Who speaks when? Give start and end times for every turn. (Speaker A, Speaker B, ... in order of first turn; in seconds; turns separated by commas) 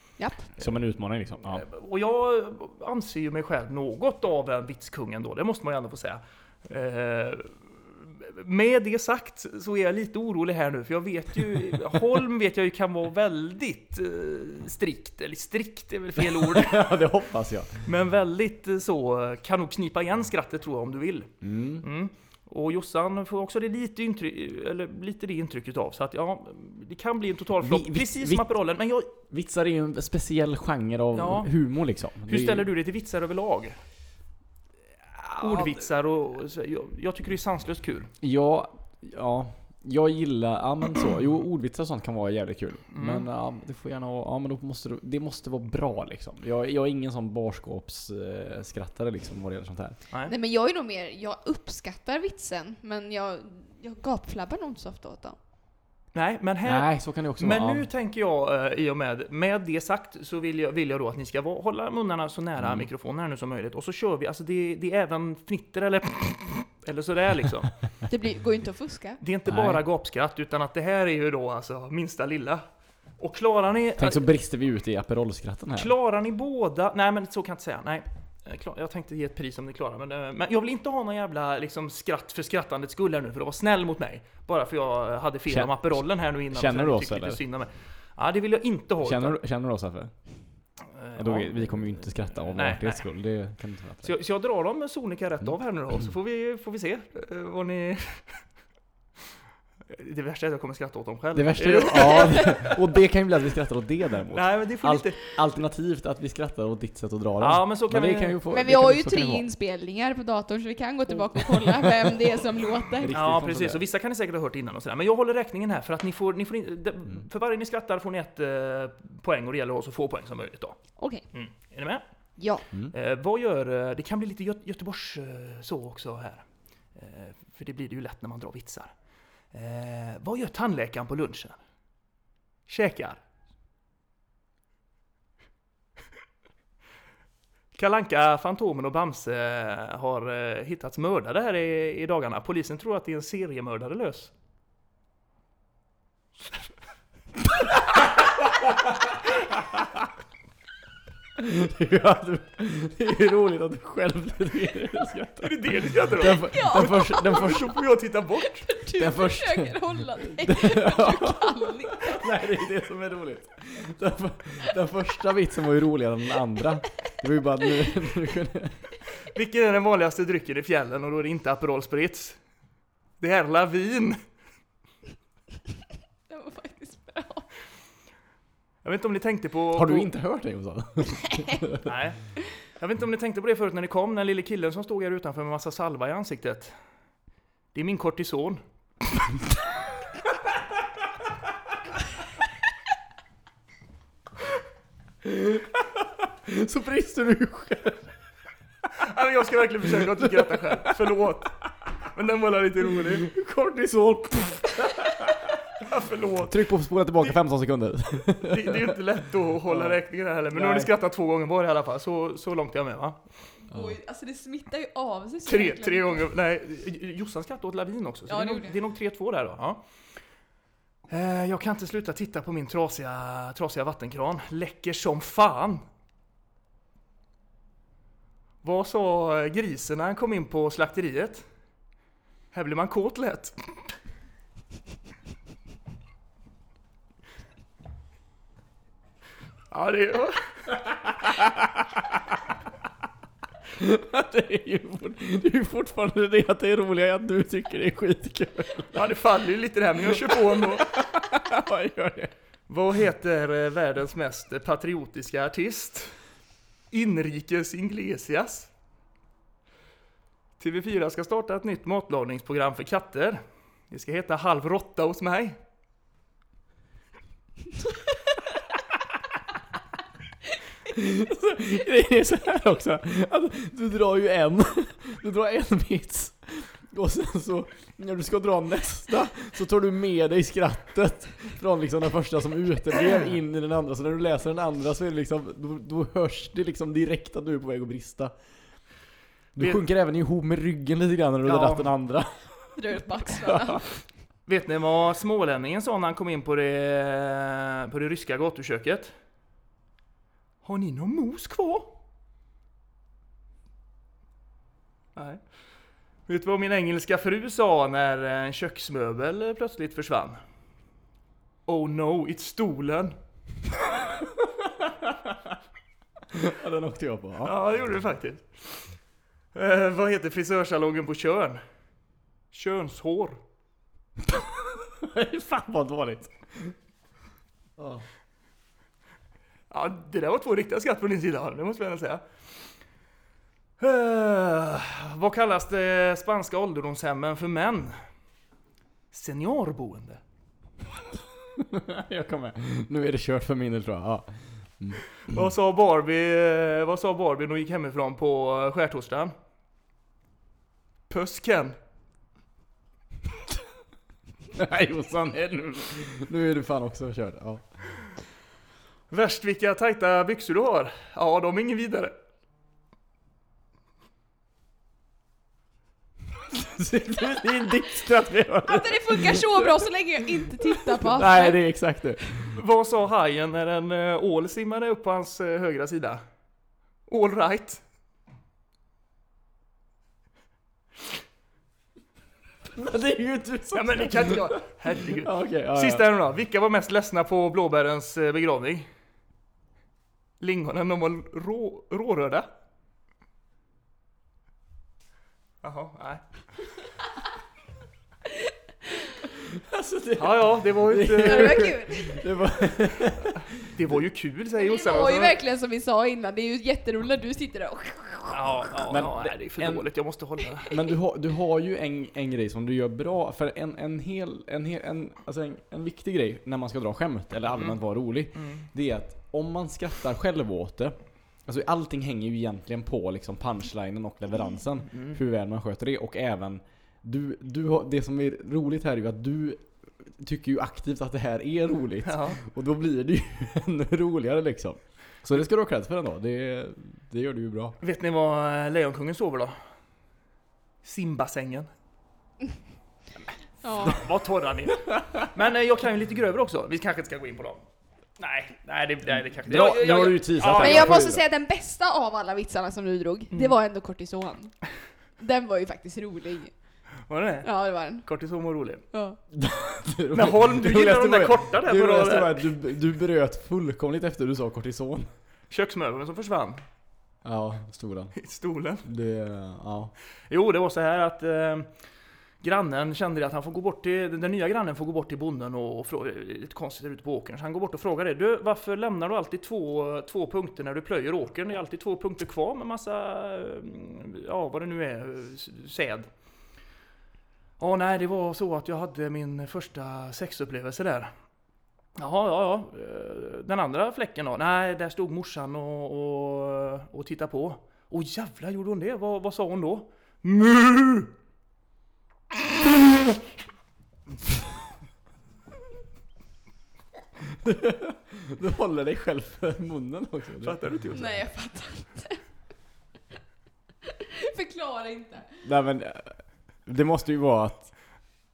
Speaker A: 0.2-0.5, Speaker B: 0.6-1.6, Speaker C: 1.4-17.0, Speaker B: 16.2-17.9, Speaker C: 17.8-29.1, Speaker B: 21.4-21.9, Speaker B: 27.6-28.5, Speaker B: 29.3-32.7, Speaker C: 31.1-31.5, Speaker C: 32.3-33.8, Speaker B: 35.2-35.8, Speaker C: 35.4-38.1, Speaker B: 38.2-50.0, Speaker C: 42.9-43.2, Speaker A: 50.3-55.4, Speaker C: 56.1-67.7, Speaker B: 56.6-57.9, Speaker B: 62.6-62.9, Speaker A: 68.1-69.2, Speaker C: 69.2-72.6, Speaker B: 69.5-69.8, Speaker C: 73.2-74.2, Speaker B: 74.0-75.9, Speaker C: 75.8-89.4, Speaker B: 85.5-87.4, Speaker B: 89.0-90.1, Speaker C: 90.9-91.8, Speaker B: 91.2-94.1, Speaker C: 92.5-93.0, Speaker C: 94.0-98.4, Speaker C: 99.9-102.8, Speaker B: 101.3-109.4, Speaker C: 104.3-105.4, Speaker C: 107.4-108.4, Speaker A: 108.5-113.2, Speaker B: 111.5-112.3, Speaker B: 112.9-113.8, Speaker C: 113.1-120.8, Speaker A: 121.0-121.2, Speaker C: 121.3-122.0, Speaker A: 122.4-122.6, Speaker C: 122.9-128.9, Speaker C: 129.5-131.6, Speaker C: 132.7-133.2, Speaker C: 137.7-144.3, Speaker B: 147.9-150.0, Speaker B: 151.3-157.8, Speaker C: 155.4-158.7, Speaker A: 156.5-157.6, Speaker A: 158.4-162.2, Speaker B: 158.9-168.8, Speaker C: 169.3-172.4, Speaker C: 173.2-174.2, Speaker A: 176.3-177.4, Speaker C: 178.8-180.1, Speaker B: 179.7-181.9, Speaker C: 181.8-182.2, Speaker C: 182.8-186.7, Speaker C: 187.7-188.6, Speaker B: 195.2-198.1, Speaker C: 199.0-203.3, Speaker B: 199.8-201.1, Speaker B: 202.8-205.6, Speaker C: 205.8-206.7, Speaker B: 206.4-209.0, Speaker C: 208.3-213.2, Speaker B: 209.6-210.0, Speaker B: 210.5-210.9, Speaker A: 213.7-216.3, Speaker C: 215.5-219.8, Speaker A: 218.3-218.8, Speaker C: 221.1-225.8, Speaker C: 228.6-231.4, Speaker C: 232.5-233.5, Speaker C: 239.7-240.8, Speaker B: 241.4-242.2, Speaker B: 243.7-249.1, Speaker C: 248.9-251.0, Speaker B: 250.1-252.3, Speaker C: 252.7-256.1, Speaker C: 256.9-258.7, Speaker C: 260.6-265.6, Speaker B: 270.8-288.3, Speaker B: 289.6-292.7, Speaker C: 291.4-291.9, Speaker A: 292.8-293.8, Speaker B: 293.2-293.8, Speaker C: 294.4-299.1, Speaker C: 300.6-301.9, Speaker C: 305.1-305.4, Speaker C: 306.3-310.4, Speaker C: 311.7-313.1, Speaker B: 316.3-317.6, Speaker C: 317.4-318.9, Speaker C: 319.5-321.6, Speaker C: 322.5-323.4, Speaker B: 324.2-326.7, Speaker B: 327.8-328.0, Speaker C: 329.7-332.2, Speaker C: 333.8-338.0, Speaker C: 339.1-340.2, Speaker B: 341.5-345.4, Speaker C: 345.2-349.3, Speaker C: 351.1-351.8, Speaker B: 354.5-357.7, Speaker C: 359.1-362.1, Speaker B: 366.4-369.8, Speaker A: 368.6-371.6, Speaker B: 370.4-372.5, Speaker C: 372.4-376.2, Speaker C: 377.1-377.8, Speaker B: 382.6-386.0, Speaker C: 383.7-388.9, Speaker C: 390.4-392.5, Speaker C: 395.6-396.2, Speaker B: 399.4-403.9, Speaker C: 400.2-401.8, Speaker A: 401.2-402.2, Speaker C: 403.6-405.4, Speaker A: 404.6-408.6, Speaker C: 408.3-410.7, Speaker B: 408.9-409.8, Speaker B: 410.6-420.9, Speaker C: 418.4-418.6, Speaker B: 421.4-437.8, Speaker C: 424.9-425.2, Speaker C: 432.0-432.4, Speaker C: 437.8-439.5, Speaker C: 440.8-441.7, Speaker A: 443.6-444.1, Speaker C: 443.8-447.6, Speaker B: 444.9-445.3, Speaker C: 448.2-451.1, Speaker B: 449.4-451.2, Speaker A: 450.5-454.5, Speaker C: 453.3-453.6, Speaker A: 455.2-456.5, Speaker C: 457.1-458.8, Speaker A: 457.4-458.0, Speaker A: 458.9-459.2, Speaker B: 459.3-465.1, Speaker C: 460.1-462.5, Speaker C: 465.5-466.6, Speaker B: 467.2-468.1, Speaker C: 468.2-468.8, Speaker B: 468.8-469.9, Speaker C: 470.3-471.7, Speaker C: 472.4-486.1, Speaker C: 487.6-491.1, Speaker C: 492.0-501.1, Speaker B: 507.2-510.6, Speaker C: 510.4-511.2, Speaker A: 510.9-512.2, Speaker A: 513.9-515.5, Speaker B: 515.4-517.7